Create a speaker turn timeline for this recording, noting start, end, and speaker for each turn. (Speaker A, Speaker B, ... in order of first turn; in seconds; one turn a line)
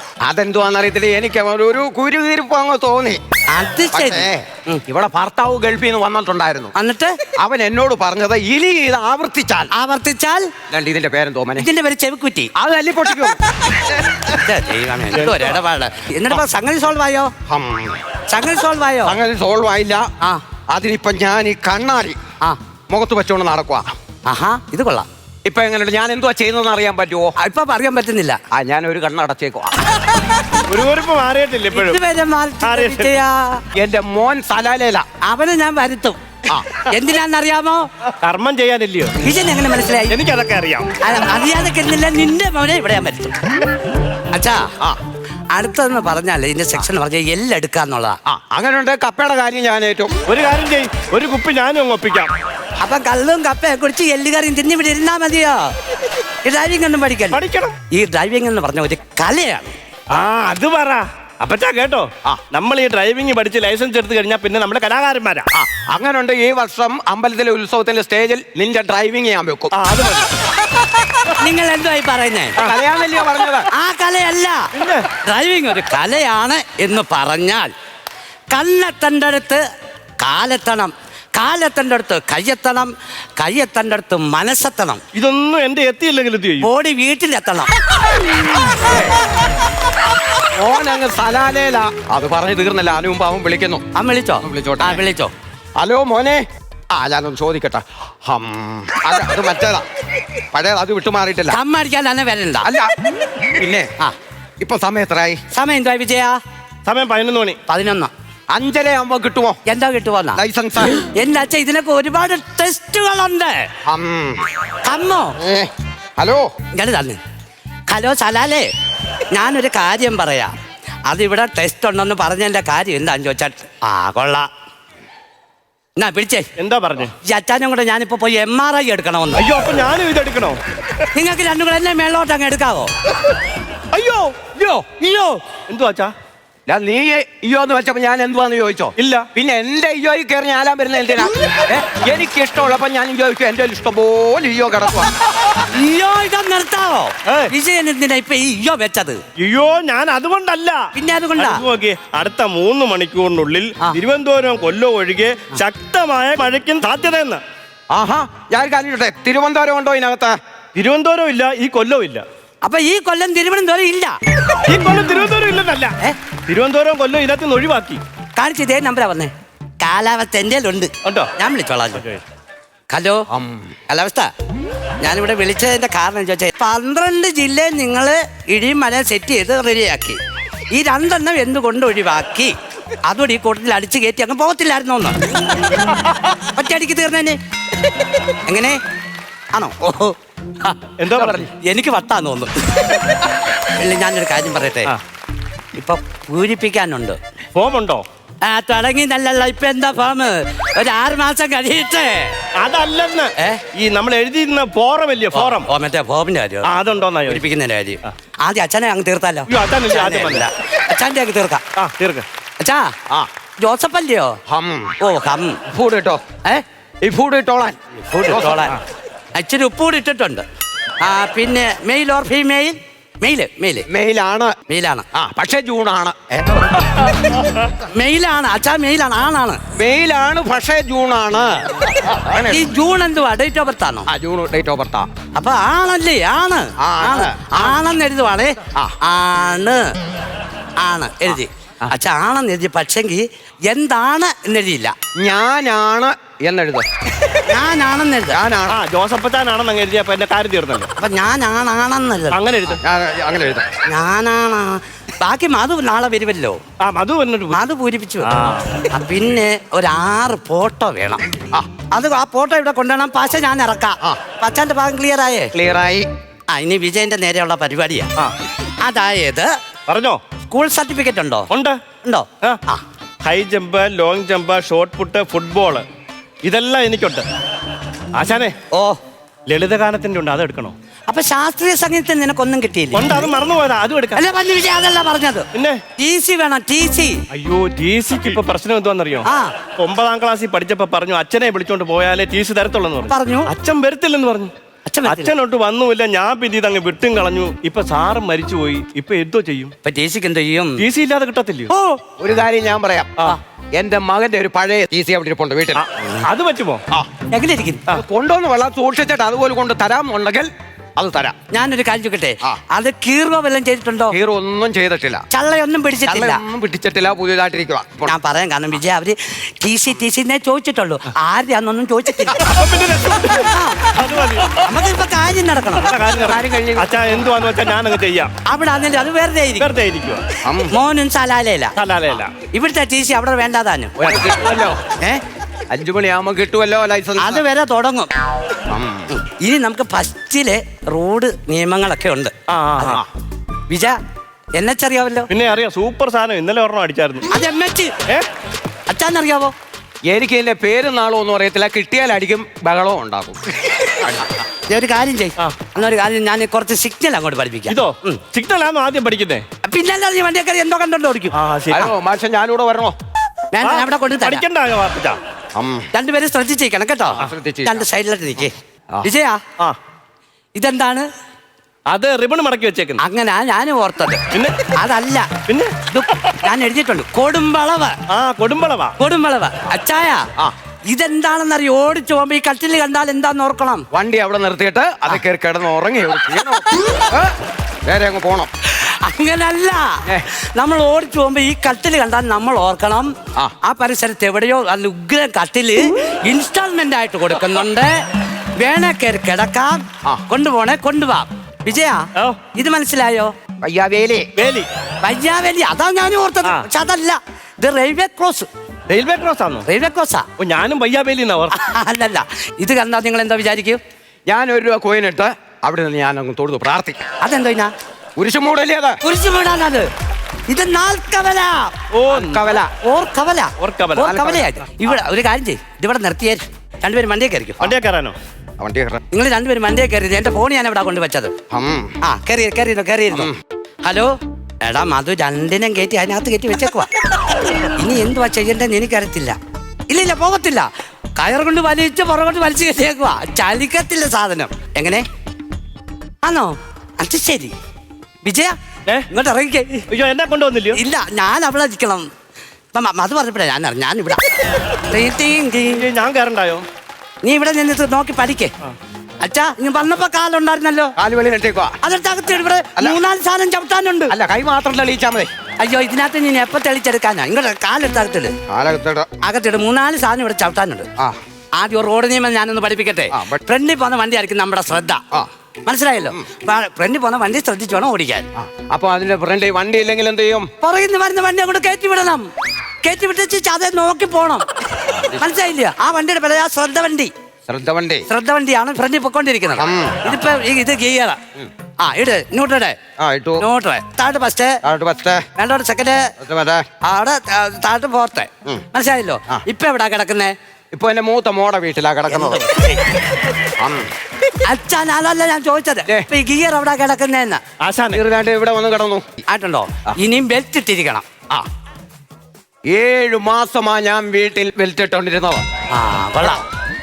Speaker A: 0.2-3.2
Speaker B: 3.5-4.8
Speaker A: 3.9-6.7
Speaker B: 6.7-7.2
Speaker A: 7.3-9.7
Speaker B: 9.7-10.5
Speaker A: 10.7-11.7
Speaker B: 11.6-12.5
Speaker A: 12.5-14.3
Speaker B: 14.3-17.3
Speaker C: 15.2-15.6
Speaker A: 17.5-18.0
Speaker B: 18.3-19.2
Speaker A: 19.0-20.1
Speaker A: 20.7-22.2
Speaker A: 22.9-23.9
Speaker B: 24.3-25.1
Speaker A: 25.4-27.3
Speaker B: 27.4-28.4
Speaker A: 28.5-30.1
Speaker C: 30.6-32.0
Speaker B: 31.7-33.6
Speaker C: 32.6-33.2
Speaker A: 33.7-35.0
Speaker B: 35.2-36.2
Speaker B: 36.8-37.8
Speaker C: 38.2-39.2
Speaker B: 39.2-40.1
Speaker C: 40.1-40.9
Speaker B: 41.0-43.4
Speaker B: 44.3-44.7
Speaker B: 45.5-48.2
Speaker A: 48.2-50.1
Speaker C: 50.2-52.3
Speaker B: 52.8-55.7
Speaker B: 56.4-59.7
Speaker C: 57.3-57.8
Speaker C: 60.1-65.5
Speaker A: 65.5-69.7
Speaker C: 69.7-70.5
Speaker B: 71.3-72.6
Speaker A: 72.6-73.7
Speaker B: 73.7-77.7
Speaker C: 74.7-75.1
Speaker B: 78.5-79.6
Speaker B: 80.2-85.0
Speaker C: 85.1-86.7
Speaker B: 86.6-87.7
Speaker A: 88.7-89.3
Speaker A: 90.4-93.8
Speaker B: 94.0-95.3
Speaker A: 94.4-95.0
Speaker A: 95.8-101.6
Speaker B: 101.5-102.7
Speaker A: 102.6-103.9
Speaker A: 104.6-105.4
Speaker B: 105.5-106.4
Speaker C: 106.8-107.6
Speaker B: 107.7-108.1
Speaker A: 108.5-109.6
Speaker B: 109.7-110.4
Speaker A: 110.3-111.0
Speaker B: 111.0-113.7
Speaker A: 113.8-114.5
Speaker B: 114.8-115.4
Speaker A: 115.4-116.5
Speaker B: 116.7-117.2
Speaker B: 117.9-118.7
Speaker B: 119.3-120.5
Speaker B: 121.1-124.5
Speaker B: 126.0-126.5
Speaker C: 126.6-127.1
Speaker B: 127.2-129.4
Speaker C: 129.3-130.6
Speaker B: 131.1-132.9
Speaker C: 133.9-134.5
Speaker B: 134.7-135.4
Speaker C: 135.7-136.1
Speaker A: 136.7-145.3
Speaker C: 139.0-139.3
Speaker B: 145.5-149.2
Speaker C: 147.2-147.5
Speaker C: 149.4-157.4
Speaker B: 150.9-151.6
Speaker A: 157.9-160.4
Speaker C: 160.8-162.2
Speaker B: 162.6-164.2
Speaker C: 164.6-165.9
Speaker C: 166.5-168.0
Speaker B: 168.4-172.0
Speaker C: 171.0-171.3
Speaker C: 172.0-172.2
Speaker B: 172.9-173.2
Speaker A: 173.3-173.7
Speaker B: 173.9-174.3
Speaker B: 175.0-180.2
Speaker B: 180.7-182.5
Speaker B: 183.1-185.2
Speaker B: 186.4-187.4
Speaker B: 188.4-188.8
Speaker B: 189.5-194.9
Speaker C: 191.0-191.4
Speaker B: 195.8-197.2
Speaker C: 197.5-198.0
Speaker B: 198.4-202.4
Speaker C: 202.6-205.7
Speaker B: 203.4-203.6
Speaker B: 205.3-206.7
Speaker C: 206.6-207.4
Speaker B: 207.2-211.6
Speaker C: 209.5-210.5
Speaker C: 211.8-212.2
Speaker B: 212.6-212.9
Speaker B: 213.6-214.4
Speaker A: 214.5-214.9
Speaker B: 215.0-215.6
Speaker A: 215.7-216.2
Speaker A: 217.0-218.8
Speaker B: 218.0-218.8
Speaker B: 219.3-220.4
Speaker B: 221.0-223.9
Speaker A: 223.9-224.5
Speaker B: 224.7-225.1
Speaker A: 225.1-226.8
Speaker B: 227.8-229.6
Speaker A: 229.7-232.7
Speaker B: 232.4-234.1
Speaker A: 234.1-235.1
Speaker B: 235.3-239.8
Speaker A: 236.8-237.8
Speaker B: 240.8-244.9
Speaker A: 241.3-241.9
Speaker A: 245.2-246.8
Speaker B: 247.4-248.4
Speaker A: 248.3-248.8
Speaker C: 248.7-250.9
Speaker B: 251.0-252.4
Speaker C: 252.3-252.8
Speaker A: 252.7-253.8
Speaker B: 253.8-256.6
Speaker C: 256.8-257.6
Speaker B: 257.5-258.3
Speaker C: 258.2-258.8
Speaker B: 258.9-261.2
Speaker B: 261.9-265.5
Speaker A: 265.5-266.1
Speaker B: 266.5-268.1
Speaker B: 268.8-269.5
Speaker C: 269.9-270.2
Speaker B: 270.5-271.5
Speaker C: 271.5-271.8
Speaker B: 272.0-272.8
Speaker C: 273.2-275.9
Speaker C: 276.4-277.2
Speaker C: 278.1-278.6
Speaker B: 278.7-279.0
Speaker C: 279.5-280.7
Speaker B: 281.1-283.3
Speaker C: 282.9-284.2
Speaker B: 284.1-287.2
Speaker C: 285.5-285.8
Speaker C: 287.3-294.5
Speaker B: 289.2-289.5
Speaker B: 293.1-293.5
Speaker B: 294.9-295.3
Speaker C: 295.1-299.7
Speaker B: 299.8-300.8
Speaker C: 300.8-301.7
Speaker B: 301.7-302.0
Speaker A: 302.1-303.2
Speaker A: 303.7-305.8
Speaker C: 305.8-306.8
Speaker B: 307.3-307.8
Speaker A: 307.9-311.4
Speaker B: 311.5-314.1
Speaker A: 314.1-315.2
Speaker B: 315.3-316.4
Speaker A: 316.1-318.1
Speaker B: 318.1-322.4
Speaker C: 322.4-324.6
Speaker B: 323.5-323.9
Speaker B: 324.5-326.8
Speaker C: 325.8-328.3
Speaker A: 326.4-326.6
Speaker B: 328.4-329.7
Speaker C: 329.6-330.2
Speaker A: 330.4-330.7
Speaker B: 330.7-331.7
Speaker C: 331.8-332.3
Speaker B: 332.4-334.0
Speaker A: 334.0-334.8
Speaker B: 334.9-335.2
Speaker A: 335.7-337.4
Speaker B: 337.2-338.1
Speaker A: 338.7-339.1
Speaker B: 339.1-343.0
Speaker C: 342.5-343.0
Speaker B: 343.7-344.0
Speaker B: 344.6-345.3
Speaker C: 345.3-347.3
Speaker B: 347.3-347.9
Speaker B: 348.9-349.5
Speaker A: 350.1-354.4
Speaker B: 354.7-358.2
Speaker C: 357.7-359.4
Speaker B: 359.6-361.3
Speaker C: 361.3-361.9
Speaker A: 361.7-362.9
Speaker B: 363.5-364.4
Speaker C: 363.6-365.2
Speaker A: 365.5-365.9
Speaker B: 365.9-369.4
Speaker A: 367.2-367.9
Speaker B: 370.6-371.1
Speaker C: 371.9-373.0
Speaker B: 373.0-375.3
Speaker C: 374.3-374.7
Speaker C: 375.5-375.8
Speaker B: 375.9-378.0
Speaker C: 378.1-378.9
Speaker B: 379.0-380.3
Speaker B: 380.9-383.9
Speaker A: 383.9-388.5
Speaker B: 388.7-393.1
Speaker B: 393.6-397.9
Speaker B: 398.6-403.3
Speaker A: 403.6-404.3
Speaker C: 404.4-404.7
Speaker B: 405.0-408.5
Speaker C: 408.9-409.7
Speaker B: 409.7-410.3
Speaker C: 410.4-411.6
Speaker B: 411.5-413.8
Speaker A: 414.3-417.0
Speaker B: 417.2-417.7
Speaker A: 418.2-419.0
Speaker B: 419.0-419.9
Speaker B: 420.5-421.7
Speaker C: 421.9-422.6
Speaker A: 422.1-422.7
Speaker B: 422.7-427.6
Speaker C: 423.6-424.4
Speaker A: 424.1-424.4
Speaker C: 427.6-428.1
Speaker A: 428.6-429.0
Speaker B: 429.1-431.3
Speaker A: 431.5-431.9
Speaker B: 432.0-433.3
Speaker B: 433.8-436.9
Speaker B: 437.6-439.4
Speaker B: 439.9-445.0
Speaker B: 446.2-447.5
Speaker B: 448.2-448.5
Speaker B: 449.1-449.8
Speaker C: 449.9-450.8
Speaker B: 450.7-452.1
Speaker B: 452.7-455.9
Speaker C: 455.7-456.6
Speaker B: 457.2-458.5
Speaker B: 459.2-460.9
Speaker A: 461.0-461.8
Speaker B: 461.8-464.1
Speaker A: 464.1-465.3
Speaker B: 465.6-468.3
Speaker A: 468.5-469.1
Speaker B: 469.2-470.9
Speaker B: 471.6-475.0
Speaker A: 473.1-473.4
Speaker B: 475.6-478.3
Speaker A: 478.4-480.5
Speaker B: 480.6-482.3
Speaker B: 482.8-487.1
Speaker A: 484.9-485.2
Speaker A: 487.5-488.1
Speaker B: 488.1-491.2
Speaker A: 489.6-490.1
Speaker B: 491.8-492.8
Speaker A: 493.0-493.4
Speaker B: 493.4-494.6
Speaker A: 494.6-495.2
Speaker B: 495.4-496.1
Speaker A: 496.2-496.7
Speaker B: 496.8-500.3
Speaker A: 500.7-502.5
Speaker B: 502.1-502.9
Speaker A: 503.4-503.9
Speaker B: 504.4-507.4
Speaker C: 507.6-508.0
Speaker A: 507.9-509.1
Speaker B: 509.3-511.0
Speaker A: 512.7-515.4
Speaker B: 515.7-516.4